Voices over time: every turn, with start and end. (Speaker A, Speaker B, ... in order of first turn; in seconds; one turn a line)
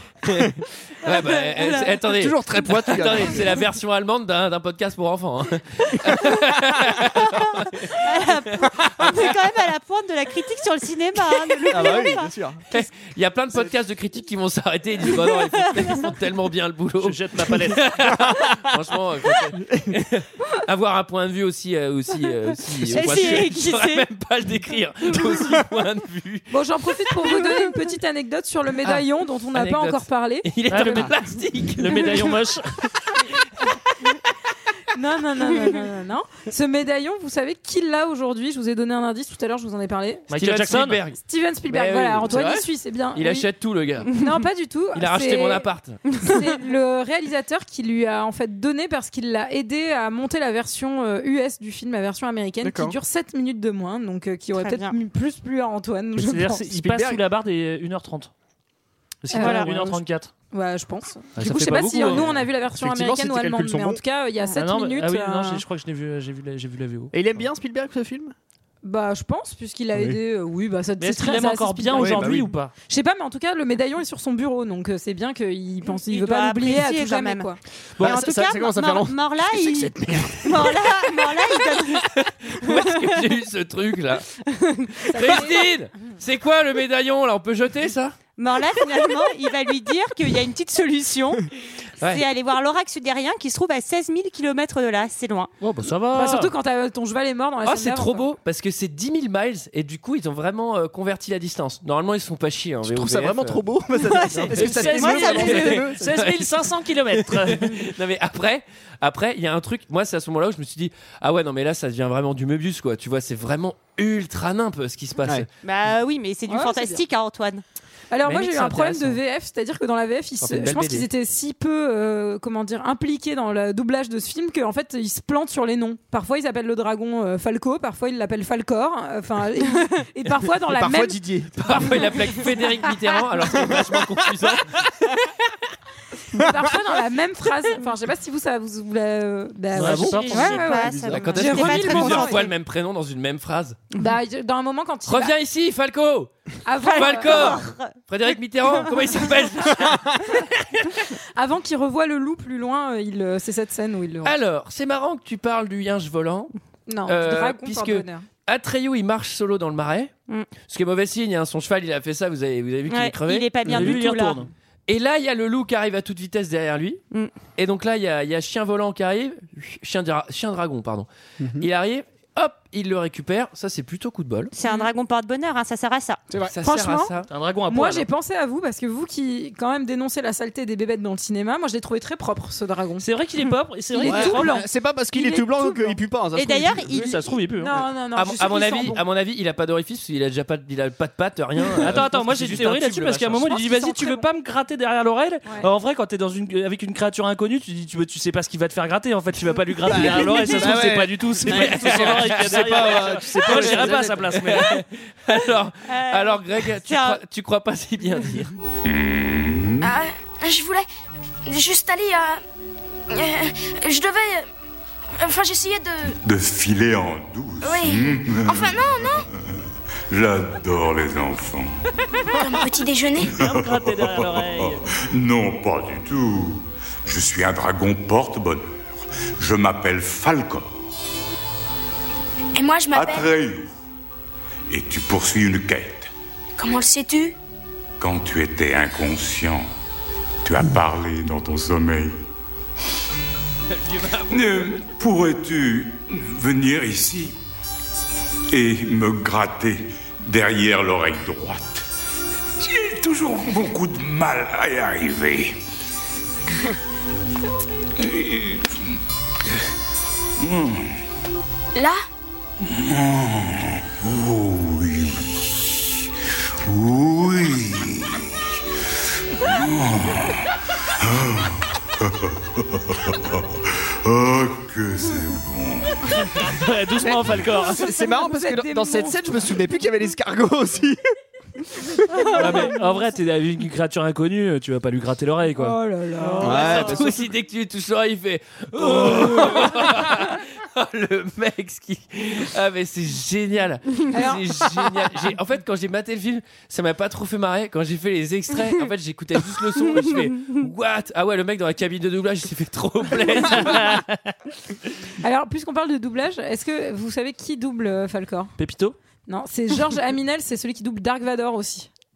Speaker A: 0.2-9.3
Speaker B: 1.0-1.9
Speaker C: 2.0-3.5
Speaker B: 7.9-12.3
Speaker C: 11.7-12.6
Speaker A: 12.7-26.5
Speaker D: 17.0-18.2
Speaker C: 18.2-18.6
Speaker C: 19.6-19.9
Speaker B: 22.9-24.1
Speaker E: 26.5-31.1
Speaker A: 28.8-32.4
Speaker D: 30.7-32.8
Speaker E: 34.9-40.3
Speaker D: 40.3-41.0
Speaker A: 40.3-44.2
Speaker E: 41.1-43.5
Speaker E: 44.1-45.7
Speaker A: 44.9-46.0
Speaker E: 46.2-56.7
Speaker C: 52.6-53.0
Speaker B: 54.5-54.9
Speaker D: 56.2-58.3
Speaker C: 56.7-57.2
Speaker D: 59.2-60.3
Speaker E: 59.3-60.0
Speaker B: 59.4-59.7
Speaker E: 60.5-65.6
Speaker D: 61.4-62.4
Speaker C: 62.0-64.0
Speaker D: 64.5-67.4
Speaker C: 67.1-68.3
Speaker E: 68.8-77.6
Speaker C: 69.9-70.2
Speaker D: 71.0-72.7
Speaker C: 72.0-72.5
Speaker B: 76.0-82.1
Speaker C: 78.0-80.7
Speaker A: 81.9-84.3
Speaker B: 82.6-83.1
Speaker B: 84.5-85.4
Speaker A: 85.0-88.2
Speaker E: 85.1-85.7
Speaker B: 88.4-91.5
Speaker B: 92.0-95.5
Speaker D: 95.6-96.5
Speaker E: 96.1-98.3
Speaker A: 97.6-103.6
Speaker C: 102.8-106.1
Speaker B: 104.0-105.5
Speaker D: 104.5-107.9
Speaker A: 104.6-106.6
Speaker A: 107.1-115.5
Speaker B: 115.6-117.6
Speaker E: 116.5-117.0
Speaker E: 118.1-131.2
Speaker A: 118.2-119.2
Speaker A: 120.4-121.1
Speaker C: 130.7-132.0
Speaker A: 131.5-135.5
Speaker E: 136.3-142.4
Speaker D: 139.7-140.6
Speaker B: 140.0-142.5
Speaker A: 140.9-143.8
Speaker E: 144.0-145.3
Speaker A: 145.1-146.3
Speaker E: 146.6-147.6
Speaker B: 146.8-147.9
Speaker A: 146.8-151.0
Speaker E: 151.3-154.3
Speaker A: 154.2-156.5
Speaker E: 156.9-158.3
Speaker A: 157.1-160.1
Speaker A: 160.7-163.5
Speaker B: 162.9-164.5
Speaker D: 163.7-164.5
Speaker A: 164.9-167.0
Speaker A: 167.6-174.5
Speaker C: 171.4-171.7
Speaker B: 174.5-176.2
Speaker E: 174.6-174.9
Speaker A: 176.5-177.3
Speaker E: 176.6-177.1
Speaker D: 177.3-178.1
Speaker E: 177.7-183.1
Speaker D: 183.0-184.6
Speaker E: 183.9-186.0
Speaker C: 184.0-187.2
Speaker B: 186.3-187.4
Speaker D: 186.9-187.8
Speaker E: 187.6-189.0
Speaker A: 188.1-193.6
Speaker D: 191.8-204.8
Speaker E: 193.4-194.2
Speaker C: 199.8-204.5
Speaker A: 201.4-208.5
Speaker B: 205.9-207.2
Speaker F: 208.8-209.9
Speaker G: 209.8-210.9
Speaker G: 211.4-212.4
Speaker G: 213.1-214.5
Speaker G: 215.2-216.2
Speaker F: 216.2-221.7
Speaker G: 217.6-219.2
Speaker G: 222.3-223.3
Speaker F: 223.3-230.9
Speaker D: 223.3-224.9
Speaker G: 232.5-233.3
Speaker F: 232.9-233.7
Speaker F: 234.7-236.1
Speaker G: 236.6-237.3
Speaker F: 238.0-239.7
Speaker F: 240.4-242.2
Speaker A: 243.7-244.6
Speaker F: 244.3-247.3
Speaker F: 248.5-251.8
Speaker F: 252.6-255.6
Speaker F: 258.0-258.9
Speaker F: 260.4-261.0
Speaker G: 261.7-262.0
Speaker F: 262.6-266.1
Speaker F: 266.6-268.3
Speaker F: 269.3-276.3
Speaker D: 276.4-277.9
Speaker C: 277.0-281.0
Speaker E: 277.8-279.2
Speaker C: 281.8-282.5
Speaker D: 282.3-285.8
Speaker E: 285.5-286.9
Speaker B: 286.2-286.7
Speaker C: 286.4-287.2
Speaker A: 286.5-304.0
Speaker D: 288.9-289.9
Speaker E: 294.1-294.4
Speaker D: 303.4-304.2
Speaker E: 305.2-308.5
Speaker D: 308.6-308.9
Speaker E: 309.3-311.9